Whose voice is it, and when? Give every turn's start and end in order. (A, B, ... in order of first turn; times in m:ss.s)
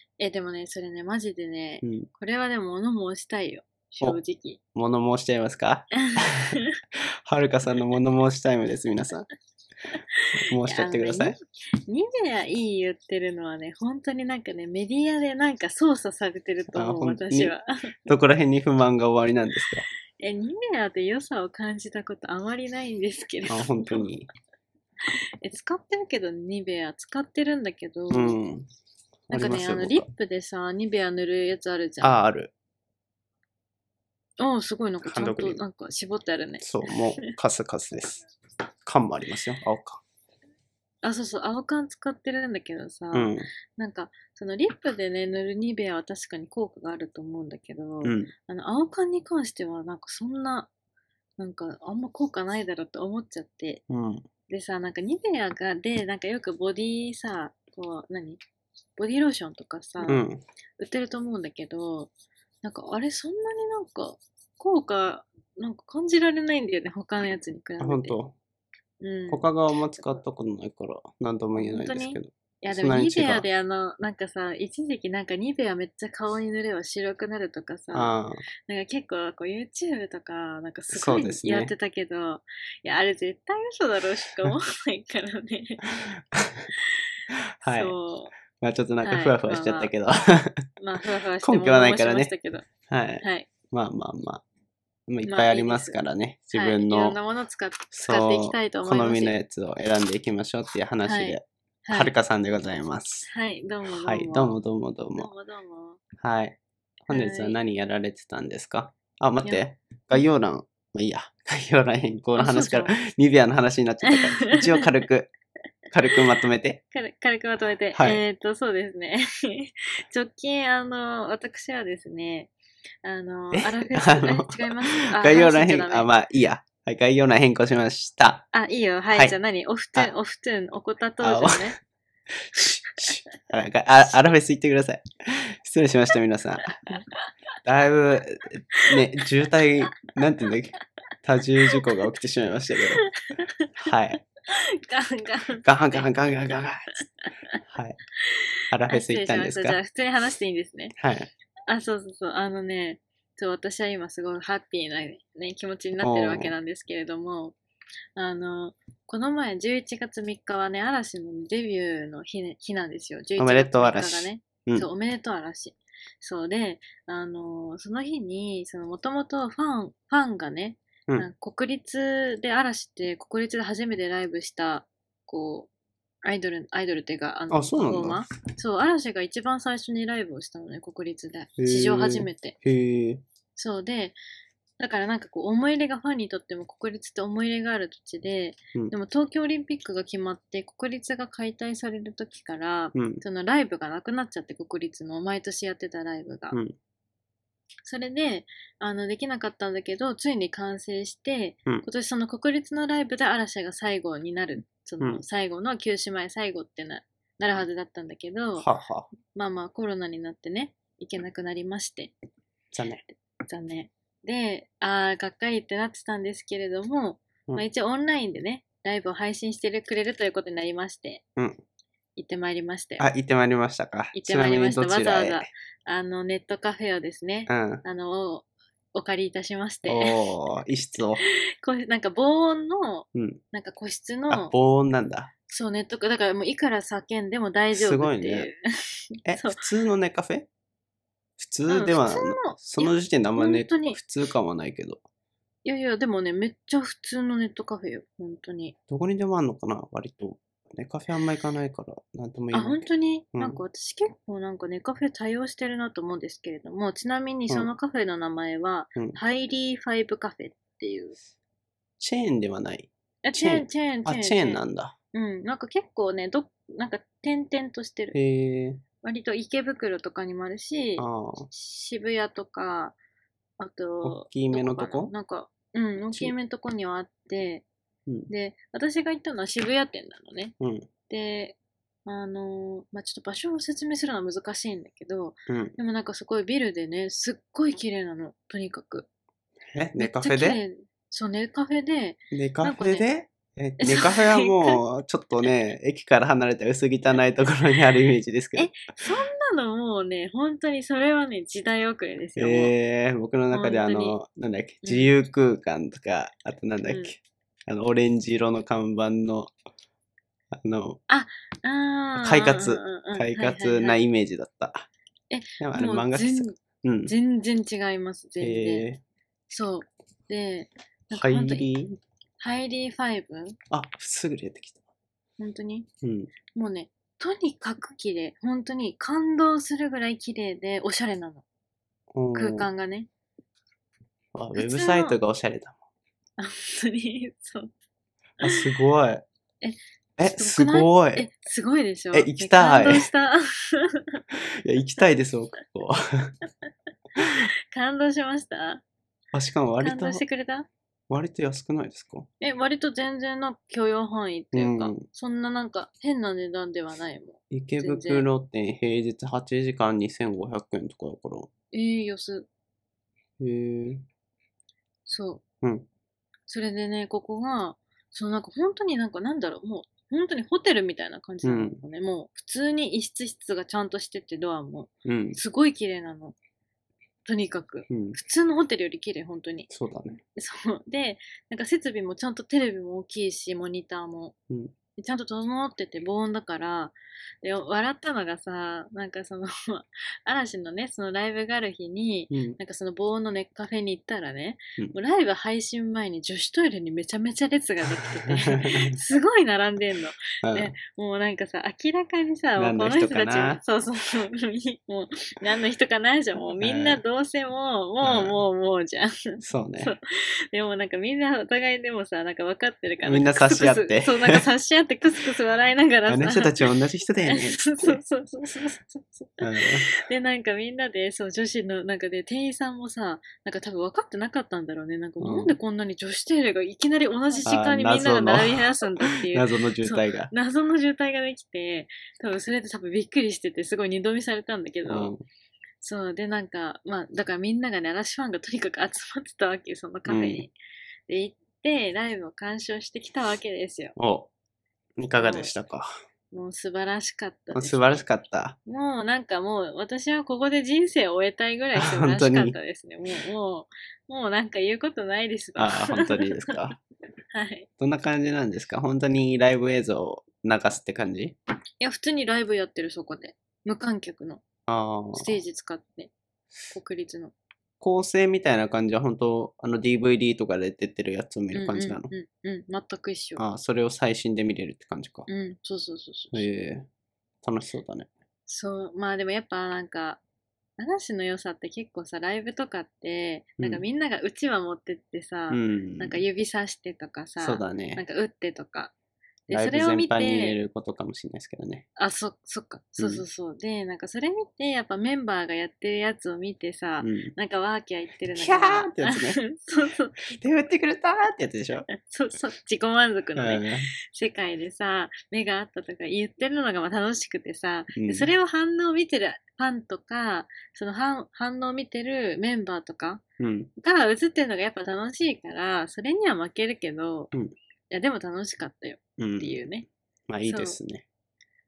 0:00.2-0:04.6 A
0:01.8-0:02.1 B
0:04.7-0:09.3 B
0:06.1-0:06.8 A
0:10.1-0:17.9 A
0:10.3-0:11.4 B
0:16.7-0:17.5 B
0:18.1-0:19.8 B
0:20.2-0:24.1 A
0:23.5-0:24.3 B
0:25.1-0:28.4 A
0:28.1-0:28.7 B
0:29.3-0:30.1 B
0:29.3-0:32.2 A
0:32.0-0:32.5 B
0:34.4-0:37.3 A
0:35.0-0:35.6 B
0:36.6-0:38.2 B
0:38.8-0:40.0 B
0:41.0-0:50.7 A
0:43.1-0:43.5 B
0:48.0-0:48.3 B
0:51.4-0:53.8 A
0:53.9-0:54.2 B
0:54.5-0:58.4 A
0:59.0-1:00.2 A
1:00.0-1:00.4 B
1:00.8-1:02.1 A
1:02.6-1:08.2 A
1:07.8-1:08.3 B
1:09.0-1:09.4 A
1:09.3-1:13.4 B
1:11.6-1:18.1 A
1:17.9-1:18.4 B
1:18.7-1:25.9 A
1:20.9-1:21.7 B
1:26.1-1:26.7 B
1:27.3-1:27.9 B
1:27.6-1:28.3 A
1:28.6-1:30.6 B
1:29.0-1:29.9 A
1:30.8-1:32.7 A
1:31.4-1:32.3 B
1:32.9-1:34.4 B
1:33.2-1:33.5 A
1:35.1-1:37.2 B
1:35.2-1:36.0 A
1:36.5-1:39.3 A
1:37.9-1:43.3 B
1:41.0-1:42.1 A
1:43.3-1:44.6 A
1:43.9-1:45.3 B
1:45.2-1:46.0 A
1:46.2-1:55.3 B
1:47.1-1:47.6 A
1:52.4-1:53.0 A
1:54.1-1:54.8 A
1:55.9-1:56.8 B
1:56.9-2:02.5 A
1:57.9-1:58.2 B
2:03.0-2:06.1 A
2:03.5-2:08.5 B
2:08.5-2:11.8 A
2:11.2-2:11.7 B
2:12.3-2:16.8 B
2:17.6-2:23.0 B
2:23.2-2:23.7 A
2:23.8-2:24.2 B
2:24.5-2:26.7 A
2:25.6-2:27.1 B
2:27.6-2:28.0 B
2:28.2-2:30.9 A
2:28.7-2:29.8 B
2:31.0-2:31.3 B
2:31.7-2:37.6 A
2:36.0-2:36.5 B
2:38.2-2:55.7 A
2:43.4-2:44.9 B
2:56.2-3:02.6 A
2:57.5-2:58.3 B
3:01.6-3:03.2 B
3:03.6-3:04.2 A
3:04.8-3:16.6 A
3:12.9-3:13.2 B
3:17.8-3:28.7 A
3:28.6-3:29.1 B
3:29.3-3:32.1 A
3:32.7-3:33.0 B
3:33.4-3:41.2 A
3:42.2-3:43.1 A
3:43.0-3:45.5 B
3:44.1-3:50.2 A
3:47.5-3:47.8 B
3:49.9-3:51.2 B
3:51.3-3:54.5 A
3:53.1-3:53.4 B
3:54.3-3:55.3 B
3:55.5-3:58.6 A
3:57.8-3:58.5 B
3:59.2-3:59.6 A
3:59.2-4:00.5 B
4:01.4-4:05.0 B
4:01.7-4:04.0 A
4:05.6-4:08.8 A
4:08.9-4:13.6 B
4:12.5-4:21.2 A
4:22.0-4:24.9 B
4:23.2-4:24.6 A
4:25.1-4:28.2 A
4:28.1-4:28.8 B
4:29.0-4:33.0 A
4:31.0-4:31.5 B
4:33.6-4:37.6 A
4:34.0-4:35.1 B
4:38.3-4:40.5 A
4:40.6-4:40.9 B
4:41.1-4:49.1 A
4:45.5-4:45.8 B
4:49.7-4:50.6 B
4:50.0-4:53.1 A
4:52.3-4:58.7 B
4:53.8-4:54.8 A
4:58.6-5:02.7 A
5:02.4-5:09.5 B
5:03.5-5:04.2 A
5:04.8-5:05.1 A
5:06.9-5:07.1 A
5:10.5-5:11.0 B
5:11.1-5:14.0 A
5:12.2-5:14.9 B
5:15.3-5:18.9 A
5:15.6-5:17.1 B
5:18.4-5:19.0 B
5:19.5-5:21.7 A
5:21.1-5:22.0 B
5:22.4-5:23.6 A
5:23.7-5:24.8 B
5:25.4-5:25.9 A
5:26.0-5:26.3 B
5:26.5-5:31.4 A
5:32.1-5:32.7 B
5:32.3-5:33.1 A
5:34.4-5:35.8 B
5:34.6-5:35.2 A
5:36.4-5:37.7 A
5:38.4-5:38.8 A
5:38.4-5:39.2 B
5:39.6-5:44.2 A
5:40.2-5:41.3 B
5:42.1-5:43.1 B
5:44.3-5:46.3 B
5:47.2-5:48.8 A
5:49.3-5:50.2 B
5:49.8-5:50.7 A
5:51.1-5:52.3 B
5:52.4-5:58.3 A
5:54.5-5:55.0 B
5:57.5-6:01.5 B
6:01.7-6:02.5 A
6:03.4-6:04.0 B
6:05.0-6:05.4 A
6:05.6-6:05.9 B
6:06.5-6:16.4 A
6:11.4-6:11.8 B
6:15.0-6:15.4 B
6:17.2-6:19.7 A
6:17.9-6:18.2 B
6:19.7-6:20.2 B
6:20.4-6:24.4 A
6:25.0-6:56.7 A
6:32.3-6:32.6 B
6:38.1-6:39.0 B
6:40.4-6:40.7 B
6:42.6-6:43.6 B
6:46.6-6:47.0 B
6:48.0-6:48.4 B
6:49.4-6:49.9 B
6:53.0-6:54.4 B
6:56.1-6:58.0 B
6:57.2-7:15.1 A
6:59.4-6:59.9 B
7:05.2-7:05.5 B
7:07.4-7:10.3 B
7:14.9-7:15.2 B
7:15.8-7:20.5 A
7:20.1-7:20.5 B
7:21.1-7:24.0 A
7:24.0-7:24.3 B
7:25.0-7:25.9 B
7:25.2-7:25.5 A
7:26.3-7:28.0 A
7:27.5-7:28.6 B
7:28.6-7:36.6 A
7:31.8-7:32.6 B
7:35.6-7:36.8 B
7:37.3-7:37.7 A
7:37.8-7:41.4 B
7:41.8-7:44.4 A
7:44.7-7:45.4 B
7:45.1-7:46.1 A
7:46.7-7:47.3 A
7:47.8-7:52.1 B
7:51.5-7:53.4 A
7:53.4-7:55.3 B
7:55.3-7:56.5 A
7:56.3-7:56.9 B
7:57.4-7:58.1 B
7:58.5-8:00.2 A
8:00.8-8:08.9 A
8:03.6-8:03.8 B
8:05.5-8:06.2 B
8:07.4-8:08.0 B
8:09.5-8:10.6 A
8:09.5-8:11.9 B
8:12.0-8:20.3 A
8:13.0-8:13.2 B
8:17.0-8:17.3 B
8:18.4-8:19.4 B
8:20.3-8:21.9 B
8:22.0-8:33.2 A
8:23.4-8:23.9 B
8:27.9-8:28.3 B
8:33.4-8:33.7 B
8:33.8-8:37.3 A
8:37.9-8:39.9 A
8:39.2-8:39.6 B
8:40.3-8:41.0 B
8:40.4-8:40.8 A